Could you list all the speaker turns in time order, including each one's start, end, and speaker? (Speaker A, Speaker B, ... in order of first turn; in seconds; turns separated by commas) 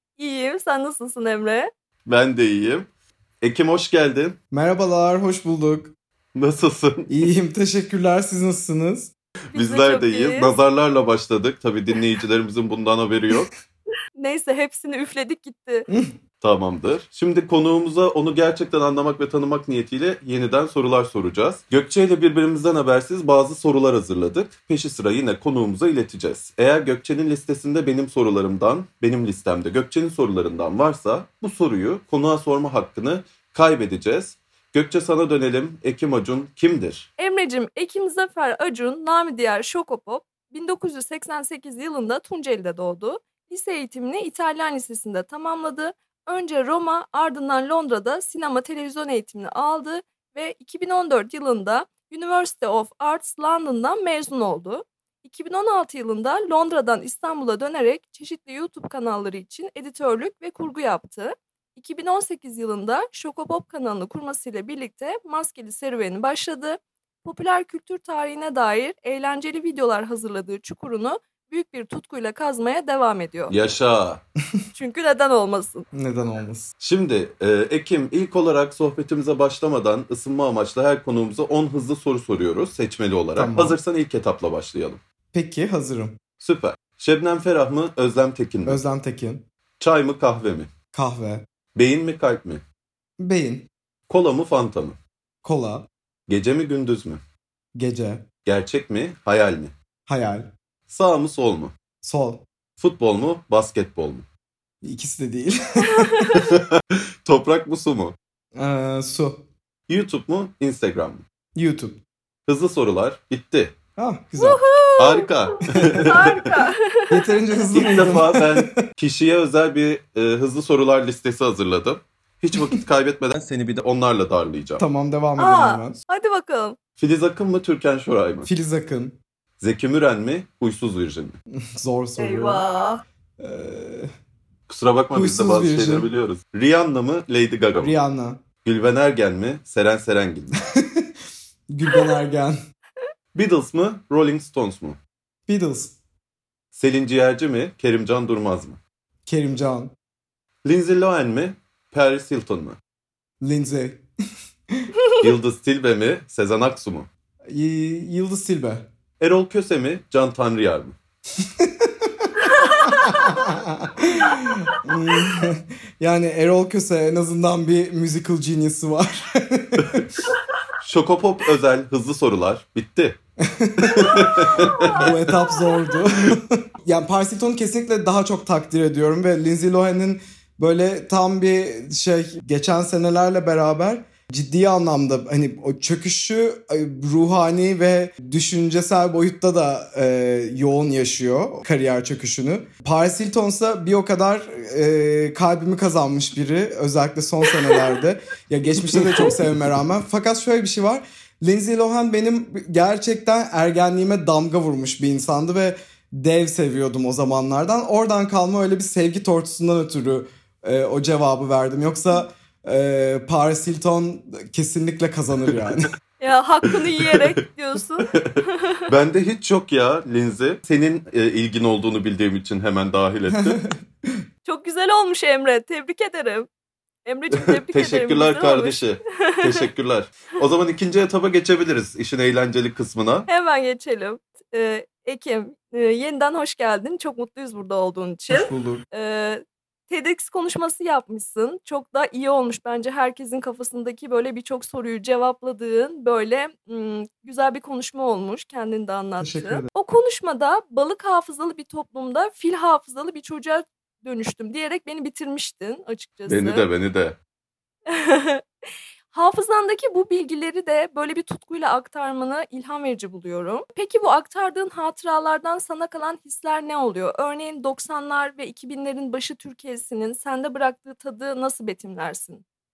Speaker A: 0.2-1.7, Speaker B: 2.1-2.9, Speaker B: 3.4-4.4, Speaker C: 4.5-5.9, Speaker B: 6.3-7.1, Speaker C: 7.1-9.1, Speaker A: 9.5-10.5, Speaker B: 9.5-13.5, Speaker A: 14.2-15.9, Speaker B: 16.4-37.1, Speaker A: 37.2-73.5, Speaker B: 73.5-74.2, Speaker A: 74.7-75.9, Speaker C: 75.9-76.7, Speaker B: 76.8-85.0, Speaker C: 83.4-83.8, Speaker C: 85.3-86.2, Speaker B: 86.4-88.8, Speaker C: 88.7-89.4, Speaker B: 89.8-90.7, Speaker C: 90.9-91.5, Speaker B: 91.8-92.6, Speaker C: 93.2-93.7, Speaker B: 94.1-95.0, Speaker C: 95.4-95.9, Speaker B: 96.3-97.2, Speaker C: 97.8-98.2, Speaker B: 98.5-99.7, Speaker C: 100.1-100.5, Speaker B: 100.9-101.7, Speaker C: 102.0-102.5, Speaker B: 102.8-104.3, Speaker C: 104.8-106.5, Speaker A: 105.9-106.5, Speaker B: 106.3-108.2, Speaker C: 108.6-109.5, Speaker B: 109.9-111.2, Speaker C: 111.5-112.0, Speaker B: 112.5-113.8, Speaker C: 114.0-114.6, Speaker A: 114.4-115.3, Speaker B: 115.0-116.5, Speaker C: 115.8-116.2, Speaker A: 116.0-117.7, Speaker C: 117.1-118.8, Speaker B: 117.7-124.8, Speaker C: 124.8-126.0, Speaker A: 125.4-126.8, Speaker B: 127.0-128.5, Speaker C: 128.4-129.2, Speaker B: 129.6-131.4, Speaker C: 131.8-132.6, Speaker A: 132.2-133.0, Speaker C: 133.4-134.1, Speaker B: 134.7-137.9, Speaker C: 135.1-136.1, Speaker C: 137.8-138.4, Speaker B: 138.6-140.6, Speaker C: 140.7-141.1, Speaker C: 141.7-142.6, Speaker B: 143.3-145.0, Speaker C: 145.5-145.9, Speaker B: 146.7-148.8, Speaker C: 149.3-149.9, Speaker B: 150.7-152.8, Speaker C: 153.4-154.0, Speaker B: 155.2-157.1, Speaker C: 157.5-158.9, Speaker B: 159.2-161.0, Speaker C: 161.4-170.1, Speaker A: 162.5-163.2, Speaker B: 170.8-173.2, Speaker C: 173.4-215.9, Speaker B: 174.0-175.2, Speaker A: 174.1-175.0, Speaker A: 216.2-218.2, Speaker B: 217.0-217.3, Speaker B: 218.9-223.6, Speaker C: 223.3-224.2, Speaker A: 224.5-226.5, Speaker A: 227.1-229.6, Speaker B: 227.4-233.3, Speaker A: 233.3-256.6, Speaker C: 238.3-238.8, Speaker C: 249.2-249.7, Speaker B: 256.3-257.2, Speaker A: 257.9-258.4, Speaker A: 259.1-272.4